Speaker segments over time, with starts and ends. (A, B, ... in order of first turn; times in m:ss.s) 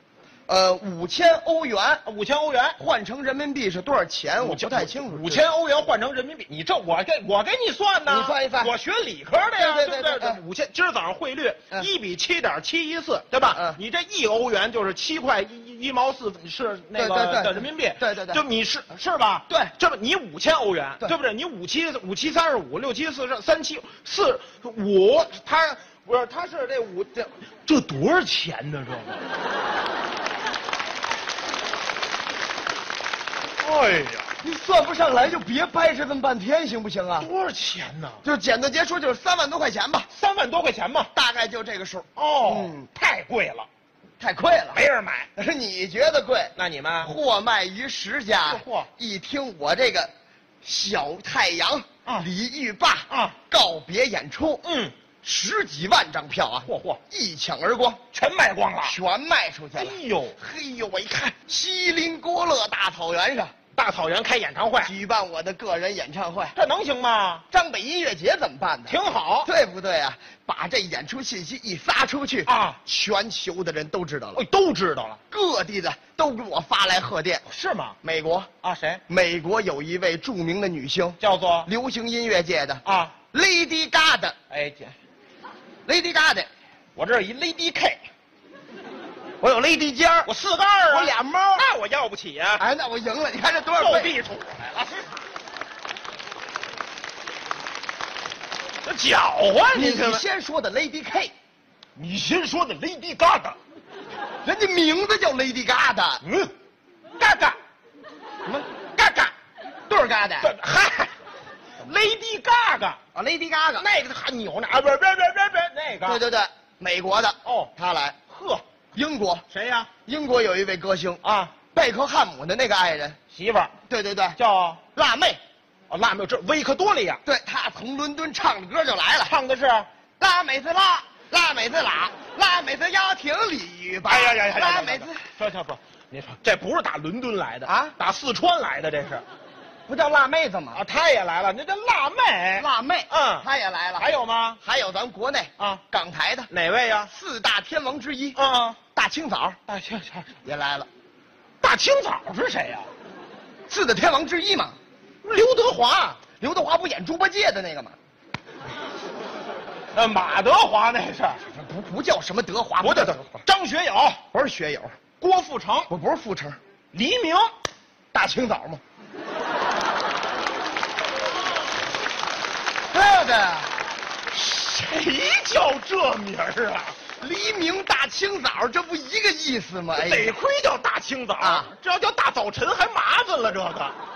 0:00.5-0:02.0 A
0:02.0-0:02.8 B
0:02.8-0:05.5 A
0:04.4-0:29.3 B
0:08.1-0:08.7 A
0:09.6-0:10.4 A
0:13.5-0:13.8 A
0:17.0-0:18.4 A
0:33.6-0:34.3 B
0:34.4-0:37.3 A
0:37.2-0:38.2 B
0:38.2-0:40.1 A
0:40.1-0:41.1 B
0:41.1-0:42.9 A
0:42.2-0:43.7 B
0:44.2-0:44.8 A
0:44.7-0:45.3 B
0:45.4-0:50.1 A
0:46.6-0:47.1 B
0:48.4-0:48.9 B
0:50.6-0:54.6 A
0:53.1-0:53.4 B
0:54.6-0:55.0 B
0:55.2-0:58.0 A
0:56.6-0:57.0 B
0:58.1-0:59.0 B
0:58.8-1:03.6 A
0:59.8-1:00.4 B
1:03.8-1:04.9 B
1:04.8-1:06.6 A
1:06.5-1:07.4 B
1:07.5-1:14.4 A
1:08.9-1:09.5 B
1:12.5-1:12.8 B
1:14.4-1:15.2 B
1:15.3-1:17.4 A
1:17.5-1:18.0 B
1:18.0-1:18.5 A
1:18.6-1:19.0 B
1:19.1-1:24.4 A
1:21.2-1:21.7 B
1:22.8-1:23.2 B
1:24.5-1:25.0 B
1:25.9-1:26.5 A
1:27.0-1:28.0 B
1:29.4-1:30.3 A
1:30.2-1:32.6 B
1:30.9-1:31.6 A
1:32.6-1:34.2 A
1:33.8-1:35.1 B
1:38.8-1:40.2 B
1:39.7-1:41.3 A
1:42.0-1:43.6 B
1:44.4-1:46.2 A
1:46.2-1:46.5 B
1:47.2-1:47.6 B
1:49.0-1:49.3 B
1:49.9-1:50.5 A
1:50.4-1:51.1 B
1:51.8-1:53.0 B
1:53.1-1:53.9 A
1:53.8-1:56.2 B
1:56.0-1:58.2 A
1:57.4-1:57.7 B
1:58.3-1:58.6 B
1:58.9-1:59.5 A
1:59.5-1:59.9 B
2:00.0-2:03.2 A
2:01.2-2:01.5 B
2:03.3-2:03.7 B
2:03.9-2:04.4 A
2:04.4-2:04.8 B
2:04.9-2:05.4 A
2:05.9-2:07.2 B
2:07.2-2:09.3 A
2:09.2-2:09.9 B
2:10.2-2:15.3 A
2:14.1-2:19.2 B
2:17.7-2:18.0 A
2:19.9-2:20.8 A
2:20.7-2:23.5 B
2:22.6-2:24.1 A
2:24.0-2:24.6 B
2:24.6-2:26.5 A
2:25.6-2:25.8 B
2:26.5-2:27.1 B
2:27.1-2:28.4 A
2:28.4-2:28.8 B
2:28.9-2:29.6 A
2:29.7-2:30.4 B
2:30.4-2:30.9 A
2:31.6-2:32.9 B
2:33.7-2:34.8 A
2:35.2-2:36.2 B
2:36.4-2:38.0 A
2:39.9-2:41.4 B
2:41.4-2:43.4 A
2:42.8-2:44.2 B
2:44.3-2:44.9 A
2:45.2-2:45.9 B
2:45.9-2:46.6 A
2:46.9-2:47.5 B
2:48.1-2:48.8 A
2:52.9-2:53.8 A
2:54.3-2:57.0 B
2:57.2-3:00.4 A
2:59.9-3:04.0 B
3:01.4-3:01.7 A